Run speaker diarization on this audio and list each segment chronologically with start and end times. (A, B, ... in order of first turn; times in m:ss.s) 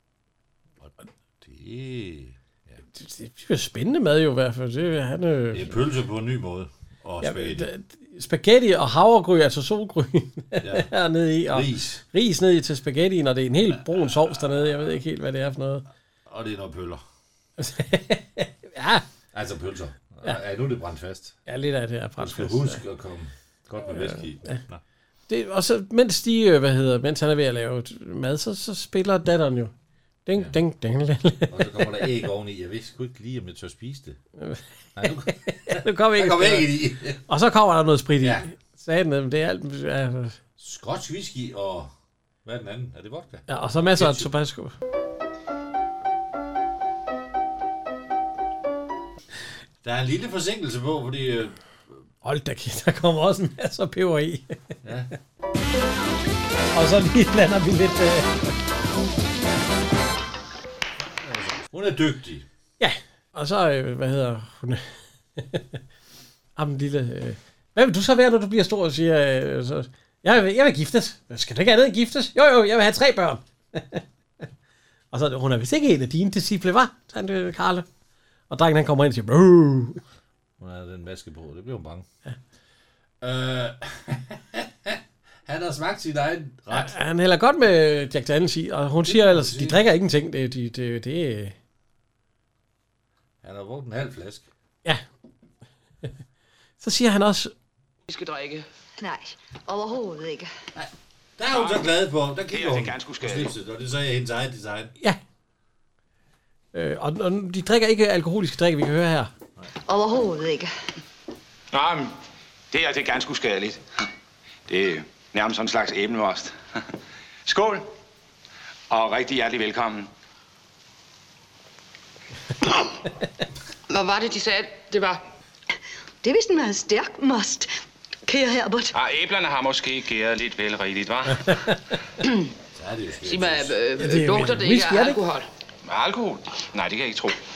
0:00.8-0:02.8 A
0:02.9-0:05.8 B
0:05.5-0:07.7 A
0:07.2-0:15.8 B
0:10.6-0:10.9 A
0:11.5-0:12.0 A
0:13.7-0:14.9 A
0:16.3-0:17.0 A
0:17.6-0:19.0 B
0:19.3-0:21.4 A
0:21.5-0:22.8 B
0:22.2-0:24.8 A
0:23.9-0:24.6 B
0:25.3-0:29.7 B
0:30.3-0:32.0 B
0:31.5-0:34.2 A
0:34.4-0:40.4 B
0:35.0-0:37.2 A
0:38.2-0:38.5 A
0:40.6-0:41.9 A
0:42.4-0:44.3 A
0:43.5-0:44.7 B
0:49.8-0:52.0 A
0:52.2-0:54.6 B
0:54.8-0:55.1 A
0:56.7-0:58.5 B
1:01.0-1:02.5 A
1:02.8-1:05.8 B
1:06.6-1:14.0 B
1:15.1-1:17.9 B
1:18.5-1:20.0 B
1:20.6-1:22.1 A
1:23.2-1:27.0 A
1:26.7-1:31.6 B
1:29.0-1:29.8 A
1:33.4-1:34.5 A
1:36.8-1:37.5 B
1:38.1-1:38.6 C
1:39.0-1:40.5 D
1:40.8-1:44.9 A
1:41.5-1:41.9 E
1:42.5-1:43.5 E
1:46.7-1:49.3 B
1:49.9-1:50.7 D
1:51.7-1:52.1 E
1:52.7-1:53.8 E
1:54.7-1:56.5 E
1:57.5-1:57.9 E
1:58.9-2:00.1 E
2:03.9-2:05.2 C
2:06.2-2:07.7 D
2:08.3-2:08.9 D
2:08.9-2:11.5 E
2:12.7-2:13.8 A
2:13.2-2:15.5 C
2:14.0-2:15.2 B
2:15.9-2:17.4 E